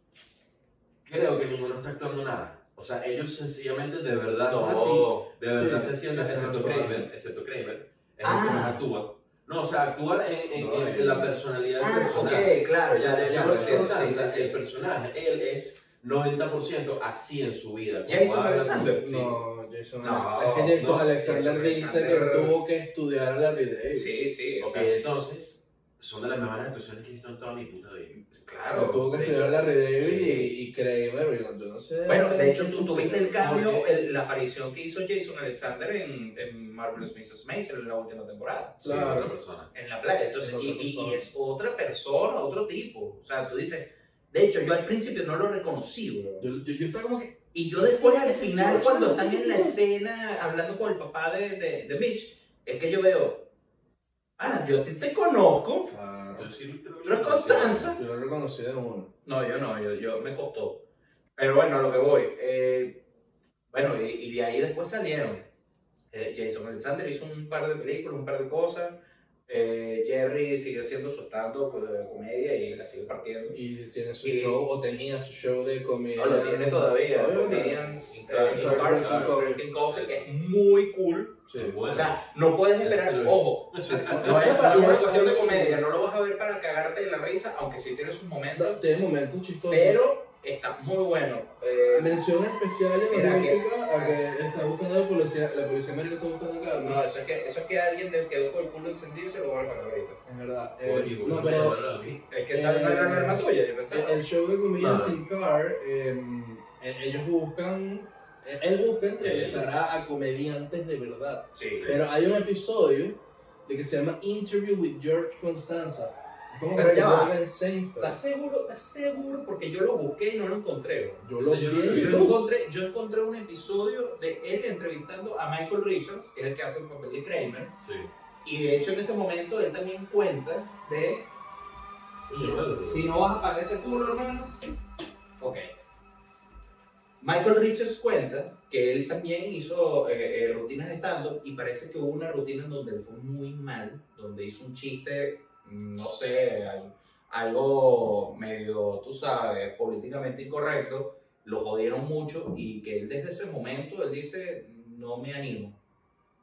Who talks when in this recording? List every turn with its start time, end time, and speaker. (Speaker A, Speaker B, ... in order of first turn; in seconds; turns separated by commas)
Speaker A: 1.0-19.1, Speaker B: 4.5-5.3, Speaker C: 5.5-7.1, Speaker B: 8.2-8.8, Speaker C: 10.5-11.3, Speaker B: 11.8-14.5, Speaker C: 13.3-14.0, Speaker B: 18.1-19.3, Speaker C: 18.8-24.1, Speaker B: 20.0-22.6, Speaker B: 23.9-24.9, Speaker A: 24.6-28.1, Speaker B: 28.2-29.6, Speaker C: 28.7-33.3, Speaker A: 30.0-30.4, Speaker B: 32.0-38.9, Speaker A: 33.4-33.8, Speaker C: 38.8-39.3, Speaker A: 38.8-39.7, Speaker B: 39.7-46.5, Speaker C: 40.4-41.3, Speaker C: 46.4-49.8, Speaker B: 47.5-53.5, Speaker B: 54.4-55.9, Speaker C: 55.9-56.5, Speaker A: 56.4-57.9, Speaker B: 57.0-58.0, Speaker C: 57.9-59.1, Speaker B: 59.2-60.8, Speaker B: 61.4-63.0, Speaker B: 63.7-65.5, Speaker B: 66.1-73.6, Speaker C: 73.5-77.8, Speaker B: 74.2-74.6, Speaker B: 76.2-88.8, Speaker A: 78.0-80.3, Speaker C: 78.4-79.6, Speaker C: 81.5-81.8, Speaker A: 81.5-82.2, Speaker A: 82.8-84.7, Speaker C: 83.8-85.8, Speaker C: 88.5-90.0, Speaker B: 89.7-92.2, Speaker C: 91.9-97.0, Speaker B: 93.1-94.2, Speaker B: 96.8-100.2, Speaker C: 100.2-101.8, Speaker A: 100.8-102.2, Speaker B: 102.3-104.2, Speaker C: 102.5-118.2, Speaker A: 104.8-105.2, Speaker A: 109.2-109.6, Speaker B: 111.5-111.9, Speaker A: 111.7-112.0, Speaker B: 116.7-117.4, Speaker B: 118.0-127.7, Speaker C: 121.2-122.4, Speaker A: 121.4-122.3, Speaker A: 127.8-128.1, Speaker B: 128.4-131.3, Speaker A: 132.3-133.4, Speaker B: 132.4-134.5, Speaker B: 135.4-135.7, Speaker B: 137.2-155.8